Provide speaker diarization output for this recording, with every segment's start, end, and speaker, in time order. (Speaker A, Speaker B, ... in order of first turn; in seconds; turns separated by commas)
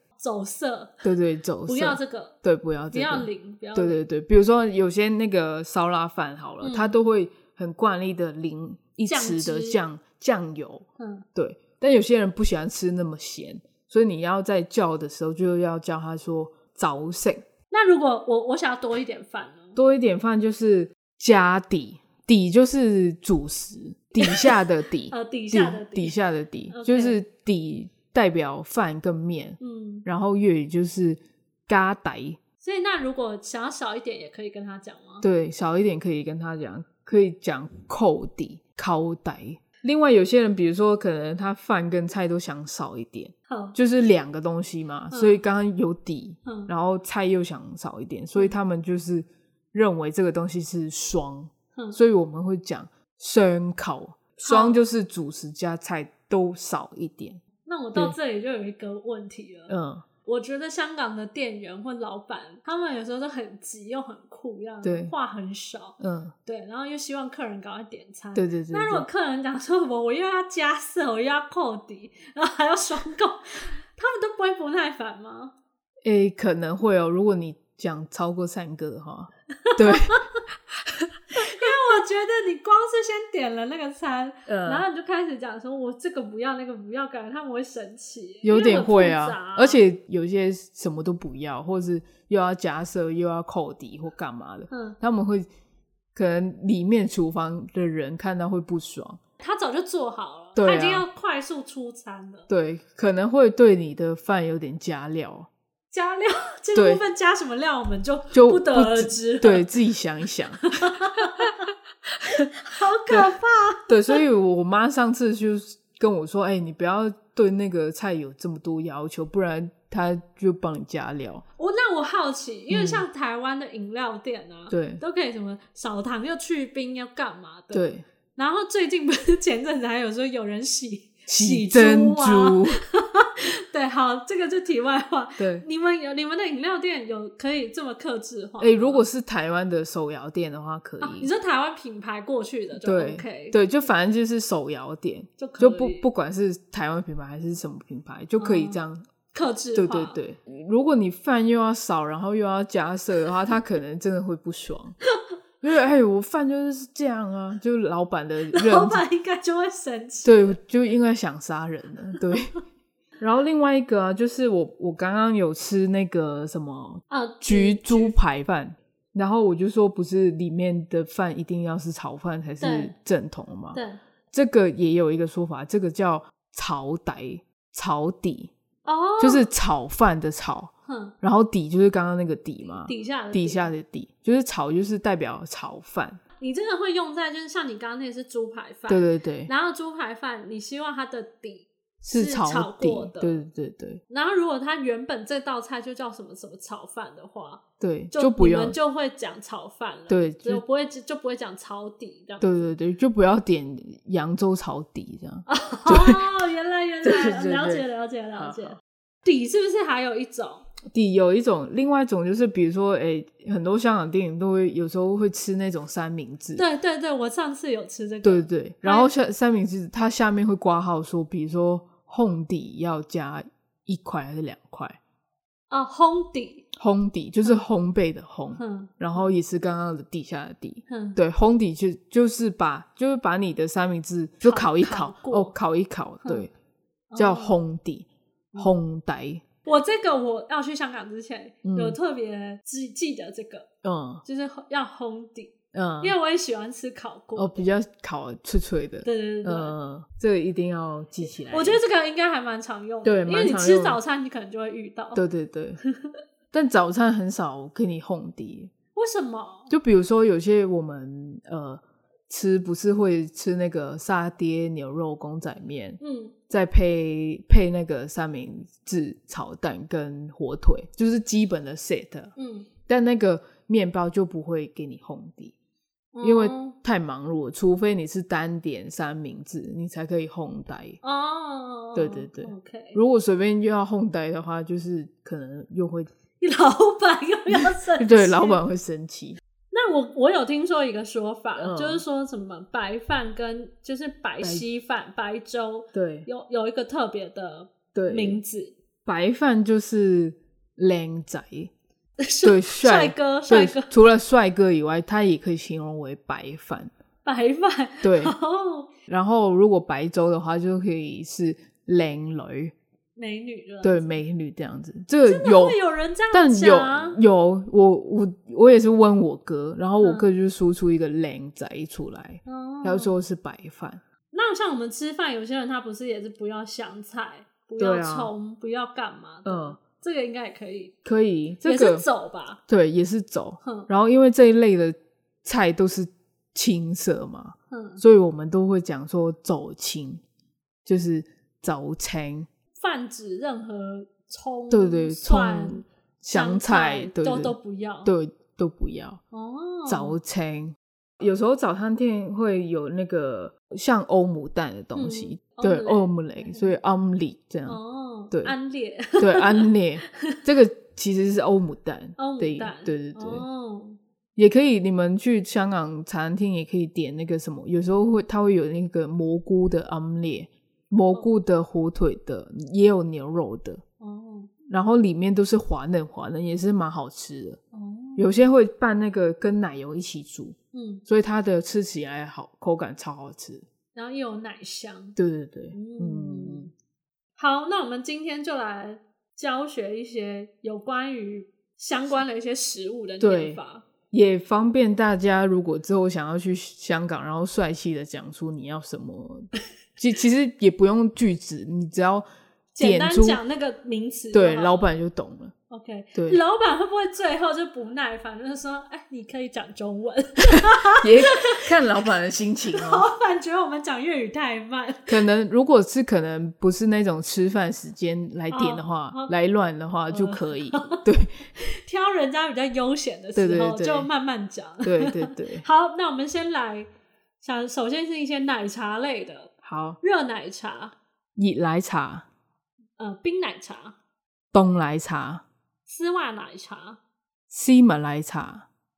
Speaker A: 0.2-1.1, Speaker B: 1.0-17.4, Speaker A: 1.7-2.4, Speaker A: 2.9-4.0, Speaker A: 6.6-7.0, Speaker A: 9.1-9.8, Speaker A: 11.0-11.2, Speaker A: 17.7-19.8, Speaker B: 19.8-32.4, Speaker A: 24.2-24.6, Speaker A: 25.1-26.2, Speaker A: 26.7-27.2, Speaker A: 29.6-30.1, Speaker A: 32.6-35.2, Speaker B: 35.2-57.4, Speaker A: 43.5-43.8, Speaker A: 45.1-45.4, Speaker A: 46.5-46.7, Speaker A: 54.5-54.8, Speaker A: 57.6-75.5, Speaker B: 59.7-60.0, Speaker B: 64.8-65.1, Speaker B: 66.0-66.3, Speaker B: 68.3-69.1, Speaker B: 76.0-80.2, Speaker A: 79.6-80.4, Speaker A: 81.3-89.8, Speaker B: 81.3-81.7, Speaker B: 84.5-84.9, Speaker B: 88.4-95.5, Speaker A: 94.7-95.0, Speaker B: 96.1-99.2, Speaker A: 99.4-102.5, Speaker B: 100.5-101.1, Speaker B: 102.5-105.5, Speaker A: 105.9-109.7, Speaker B: 106.8-107.0, Speaker B: 108.3-111.5, Speaker A: 110.7-111.7, Speaker A: 112.3-114.2, Speaker B: 113.1-121.4, Speaker A: 121.6-139.1, Speaker B: 122.7-123.1, Speaker B: 124.7-125.0, Speaker B: 127.7-128.1, Speaker B: 131.3-132.8, Speaker B: 135.4-135.6, Speaker B: 138.6-141.3, Speaker A: 141.0-143.6, Speaker B: 142.7-149.1, Speaker A: 145.4-146.1, Speaker A: 148.4-148.8, Speaker A: 149.3-150.2, Speaker B: 149.8-155.0, Speaker B: 155.6-159.0, Speaker A: 158.5-160.6, Speaker B: 160.2-162.5, Speaker B: 163.2-173.8, Speaker A: 167.1-168.1, Speaker A: 172.6-172.9, Speaker A: 173.7-174.0, Speaker B: 174.3-178.5, Speaker A: 178.8-179.5, Speaker B: 179.2-186.2, Speaker A: 180.9-181.1, Speaker A: 182.8-183.7, Speaker A: 186.4-193.4, Speaker B: 188.9-189.5, Speaker B: 192.0-194.0, Speaker A: 194.1-202.6, Speaker B: 197.8-198.8, Speaker B: 200.1-200.6, Speaker B: 202.4-206.3, Speaker A: 205.5-210.6, Speaker B: 207.0-207.8, Speaker B: 208.4-208.8, Speaker B: 210.9-216.6, Speaker A: 216.6-219.1, Speaker B: 218.2-225.0, Speaker A: 225.7-226.7, Speaker B: 226.8-236.5, Speaker A: 228.6-228.9, Speaker A: 230.9-231.2, Speaker A: 234.4-235.5, Speaker A: 237.1-237.6, Speaker B: 237.2-239.4, Speaker A: 239.6-243.7, Speaker B: 241.6-242.0, Speaker B: 243.8-244.2, Speaker A: 244.2-247.6, Speaker B: 245.7-246.2, Speaker B: 247.4-251.8, Speaker A: 249.0-249.8, Speaker A: 251.5-255.2, Speaker B: 253.0-254.0, Speaker B: 255.1-255.8, Speaker A: 255.8-256.2, Speaker B: 256.5-258.7, Speaker A: 258.9-259.7, Speaker B: 259.7-272.3, Speaker A: 266.0-266.4, Speaker A: 272.4-272.7, Speaker B: 272.9-275.6, Speaker A: 276.1-276.8, Speaker B: 276.2-281.0, Speaker A: 281.0-283.0, Speaker B: 281.9-286.1, Speaker A: 286.4-288.6, Speaker B: 287.5-289.4, Speaker A: 289.7-298.8, Speaker B: 291.6-292.0, Speaker B: 295.9-296.3, Speaker B: 297.9-298.4, Speaker B: 299.1-301.7, Speaker A: 302.2-303.9, Speaker B: 302.4-306.9, Speaker A: 307.2-308.9, Speaker B: 308.0-308.4, Speaker B: 309.1-312.7, Speaker A: 313.2-314.2, Speaker B: 313.8-315.8, Speaker A: 315.3-317.2, Speaker B: 316.3-324.0, Speaker A: 320.0-320.3, Speaker A: 322.4-323.1, Speaker A: 324.3-330.9, Speaker B: 327.8-328.3, Speaker B: 329.4-329.8, Speaker B: 331.0-332.1, Speaker A: 331.6-332.6, Speaker B: 332.7-340.2, Speaker A: 333.6-333.9, Speaker A: 337.7-338.0, Speaker B: 340.9-342.5, Speaker A: 342.8-348.1, Speaker B: 344.7-349.2, Speaker A: 349.3-350.2, Speaker B: 349.9-357.8, Speaker A: 354.9-356.7, Speaker A: 357.7-360.4, Speaker B: 359.2-363.4, Speaker A: 362.2-364.0, Speaker B: 364.4-373.8, Speaker A: 374.0-374.5, Speaker B: 374.7-377.6, Speaker A: 377.7-378.3, Speaker B: 378.2-380.6, Speaker A: 380.7-381.0, Speaker B: 381.1-383.7, Speaker A: 383.9-385.2, Speaker B: 385.2-386.7, Speaker A: 385.7-386.7, Speaker A: 387.4-393.9, Speaker B: 393.2-393.6, Speaker B: 394.1-402.3, Speaker A: 402.7-404.9, Speaker B: 402.8-403.4, Speaker B: 404.3-405.5, Speaker A: 405.7-411.7, Speaker B: 406.1-406.4, Speaker B: 410.9-413.1, Speaker A: 412.7-415.2, Speaker B: 415.1-421.4, Speaker A: 418.5-419.3, Speaker A: 420.1-421.0, Speaker A: 421.6-426.9, Speaker B: 423.4-424.1, Speaker B: 424.8-425.6, Speaker A: 427.4-430.9, Speaker B: 429.6-430.0, Speaker B: 431.4-432.3, Speaker A: 433.0-433.9, Speaker B: 434.5-435.4, Speaker A: 435.9-437.0, Speaker B: 437.5-438.7